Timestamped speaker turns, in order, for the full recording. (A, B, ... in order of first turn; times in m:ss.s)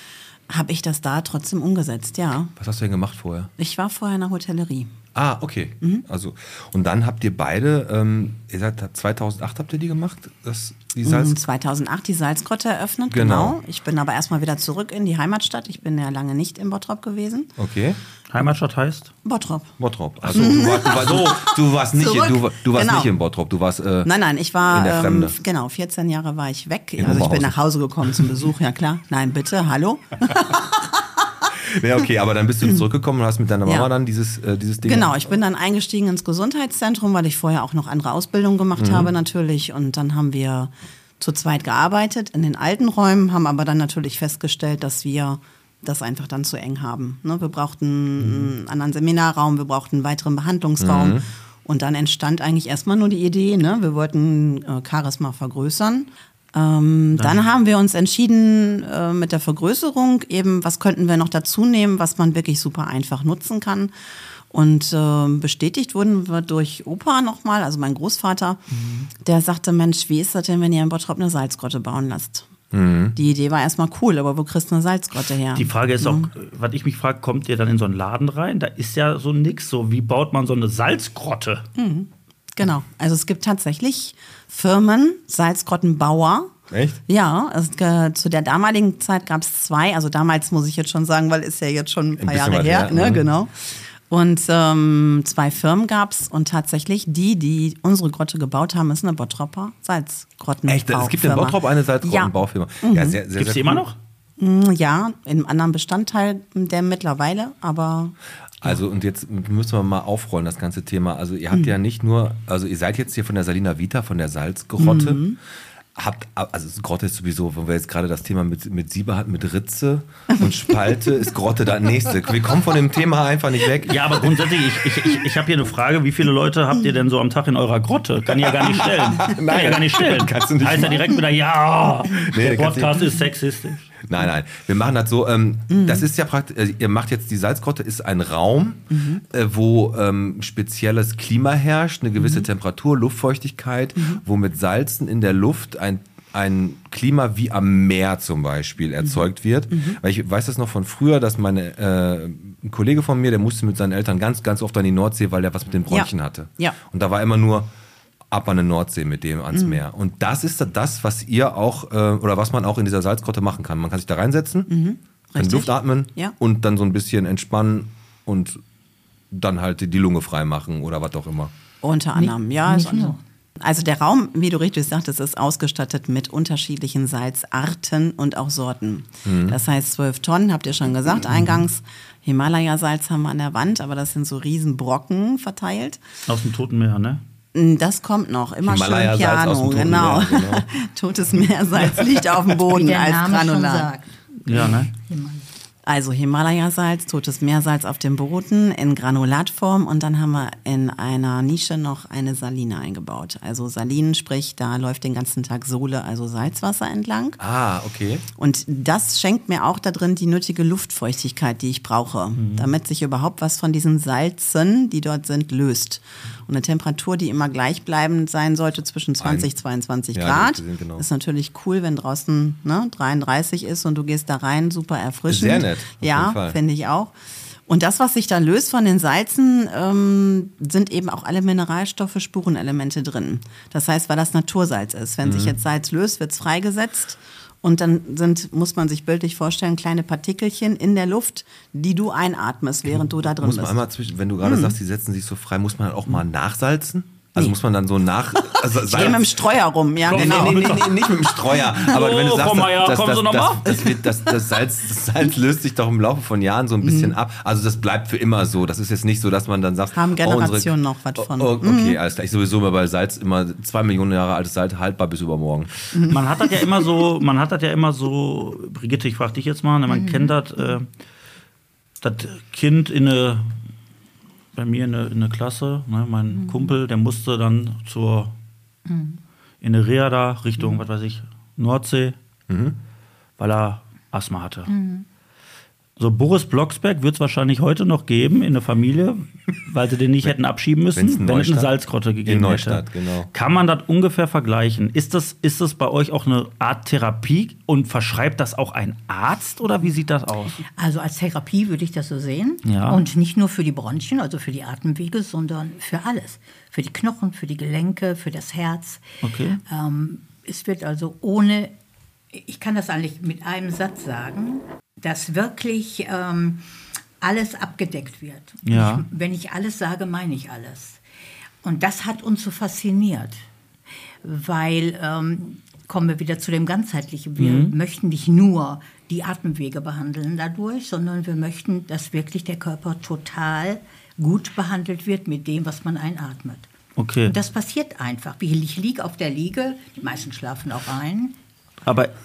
0:00.5-0:02.5 A
0:02.6-0:03.5 B
0:03.6-0:04.9 A
0:05.2-0:11.4 B
0:11.0-0:17.5 A
0:13.1-0:13.6 B
0:17.6-0:18.0 B
0:18.3-0:19.1 C
0:19.2-0:19.7 A
0:19.8-0:24.1 B
0:20.2-0:23.1 A
0:24.0-0:30.9 A
0:24.7-0:25.4 B
0:27.0-0:27.6 B
0:31.6-0:35.3 B
0:33.6-0:33.9 A
0:34.8-1:03.9 A
0:38.8-0:39.1 B
0:50.8-0:51.2 B
0:57.2-0:57.4 C
1:04.5-1:08.6 A
1:08.7-1:09.1 C
1:09.2-1:12.5 A
1:12.7-1:13.2 B
1:13.2-1:16.3 A
1:15.6-1:21.6 C
1:21.8-1:26.6 A
1:26.7-1:27.0 B
1:27.1-1:43.2 A
1:32.2-1:33.3 B
1:40.7-1:43.9 B
1:43.4-1:44.0 C
1:44.4-1:48.2 A
1:48.6-1:55.4 B
1:54.8-1:55.4 A
1:56.0-2:04.2 B
2:03.8-2:13.9 C
2:08.4-2:11.2 B
2:12.1-2:13.1 B
2:14.0-2:37.7 B
2:15.7-2:16.1 A
2:18.9-2:19.2 A
2:22.2-2:22.5 A
2:29.0-2:30.0 A
2:35.9-2:36.8 A
2:38.3-2:44.7 B
2:39.5-2:39.8 A
2:44.7-2:46.3 A
2:45.4-2:48.6 B
2:49.3-2:51.5 B
2:51.8-3:06.0 A
2:52.2-2:53.2 D
2:59.2-2:59.6 B
3:06.3-3:07.2 C
3:07.5-3:13.9 A
3:08.6-3:10.7 B
3:12.7-3:15.4 D
3:14.4-3:14.9 C
3:15.8-3:27.4 A
3:27.4-3:28.2 B
3:28.4-3:47.1 A
3:32.4-3:32.7 C
3:39.2-3:39.5 B
3:40.1-3:41.0 B
3:45.3-3:46.6 B
3:47.7-4:03.8 A
3:55.2-3:55.6 B
4:02.9-4:09.4 B
4:04.4-4:04.8 A
4:08.8-4:10.8 A
4:10.1-4:11.0 C
4:10.1-4:25.7 B
4:11.6-4:13.8 C
4:16.8-4:17.2 A
4:19.9-4:22.0 A
4:25.9-4:26.5 A
4:26.1-4:30.9 C
4:29.9-4:30.4 D
4:32.0-4:33.5 C
4:34.6-4:38.3 C
4:36.3-4:36.7 D
4:38.9-4:39.2 D
4:39.6-4:42.2 C
4:42.5-4:42.8 B
4:43.4-4:44.7 C
4:44.7-4:45.0 D
4:46.0-5:00.6 C
4:50.9-4:51.7 B
4:52.2-4:53.3 B
5:00.7-5:11.7 D
5:02.6-5:03.0 C
5:09.2-5:09.6 C
5:12.3-5:16.6 D
5:17.2-5:21.0 D
5:18.6-5:19.0 C
5:21.6-5:23.4 D
5:24.2-5:36.7 D
5:27.4-5:27.8 C
5:37.0-5:37.4 C
5:37.2-5:41.4 D
5:41.9-5:42.1 C